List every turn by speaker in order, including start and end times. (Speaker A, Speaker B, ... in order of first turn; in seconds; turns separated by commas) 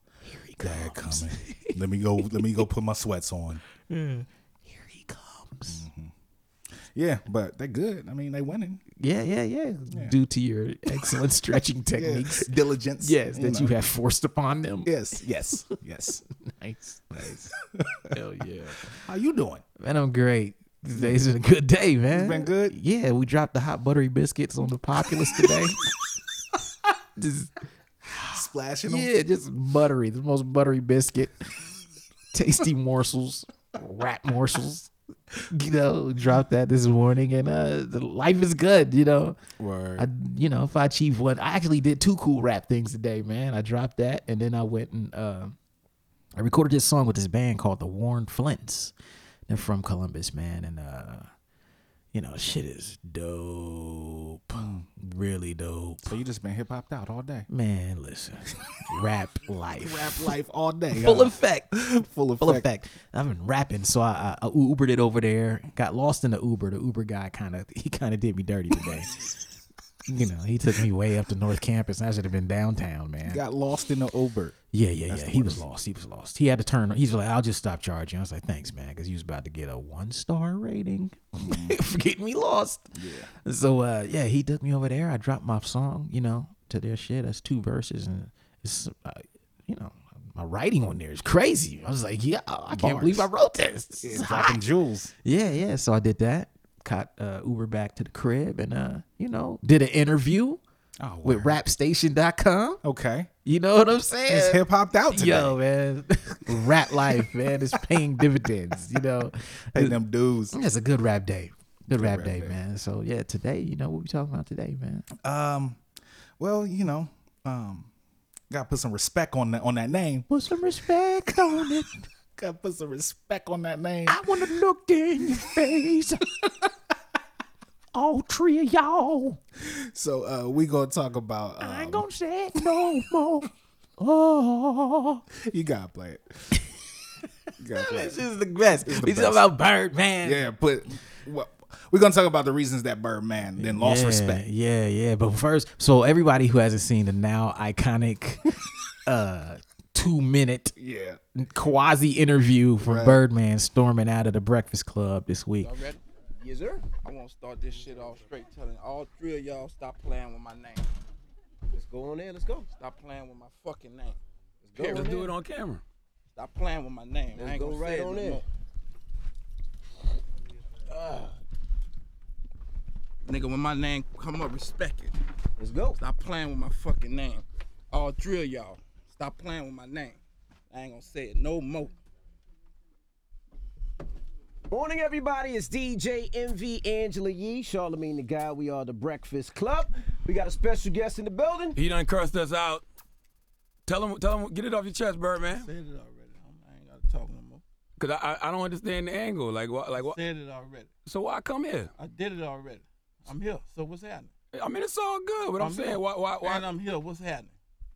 Speaker A: 0.2-2.4, Speaker B: 0.6-3.6, Speaker A: 3.9-5.8, Speaker B: 5.7-6.1, Speaker B: 6.9-8.8, Speaker A: 9.0-14.9, Speaker B: 12.0-13.7, Speaker B: 14.8-16.2, Speaker A: 16.4-17.5, Speaker B: 17.7-18.1, Speaker A: 18.1-19.0, Speaker B: 19.0-19.6, Speaker A: 19.8-25.8, Speaker B: 20.9-21.2, Speaker B: 22.1-22.8, Speaker A: 27.2-27.6, Speaker B: 28.2-29.1, Speaker A: 28.9-31.5, Speaker A: 32.3-34.9, Speaker A: 35.5-39.4, Speaker B: 39.6-40.1, Speaker A: 40.0-45.5, Speaker A: 46.4-48.9, Speaker A: 49.5-51.3, Speaker A: 52.1-56.2, Speaker B: 54.5-54.9, Speaker B: 56.1-57.5, Speaker A: 57.5-60.2, Speaker B: 59.8-62.6, Speaker A: 60.9-61.7, Speaker A: 62.4-69.2, Speaker A: 70.1-73.4, Speaker B: 73.2-74.5, Speaker A: 74.7-82.8, Speaker B: 75.1-75.6, Speaker B: 81.4-81.8, Speaker B: 82.9-83.3, Speaker A: 83.4-94.6, Speaker B: 92.7-93.3, Speaker B: 94.0-95.1, Speaker A: 95.2-100.6, Speaker B: 101.0-101.6, Speaker A: 101.2-102.8, Speaker B: 102.8-103.3, Speaker A: 103.4-110.0, Speaker B: 104.3-105.6, Speaker B: 106.5-107.2, Speaker B: 109.7-110.5, Speaker A: 110.5-115.0, Speaker B: 111.9-112.5, Speaker B: 115.2-115.8, Speaker B: 116.4-117.9, Speaker B: 118.5-120.3, Speaker A: 120.3-121.9, Speaker B: 121.3-121.7, Speaker B: 122.4-124.3, Speaker A: 124.1-126.2, Speaker A: 127.9-129.4, Speaker B: 129.6-132.0, Speaker A: 131.6-135.2, Speaker B: 135.3-136.3, Speaker B: 137.6-138.2, Speaker A: 137.7-140.4, Speaker B: 138.8-139.5, Speaker B: 140.2-144.4, Speaker A: 143.6-148.5, Speaker A: 149.1-150.8, Speaker B: 150.8-151.2, Speaker A: 151.3-155.7, Speaker B: 152.8-153.2, Speaker C: 155.6-156.0, Speaker D: 156.4-156.9, Speaker C: 157.0-160.9, Speaker D: 161.7-162.7, Speaker C: 162.8-164.2, Speaker D: 164.6-165.3, Speaker C: 164.8-165.1, Speaker E: 164.8-165.8, Speaker C: 166.3-168.4, Speaker D: 167.3-168.4, Speaker D: 170.9-171.3, Speaker C: 173.2-175.2, Speaker D: 175.6-176.0, Speaker C: 176.0-180.2, Speaker C: 180.7-181.9, Speaker D: 184.7-191.8, Speaker E: 191.7-192.8, Speaker E: 193.8-195.7, Speaker C: 195.5-197.6, Speaker E: 198.0-200.2, Speaker C: 199.9-200.9, Speaker E: 201.1-201.9, Speaker C: 202.0-204.3, Speaker E: 204.5-206.7, Speaker C: 205.6-207.6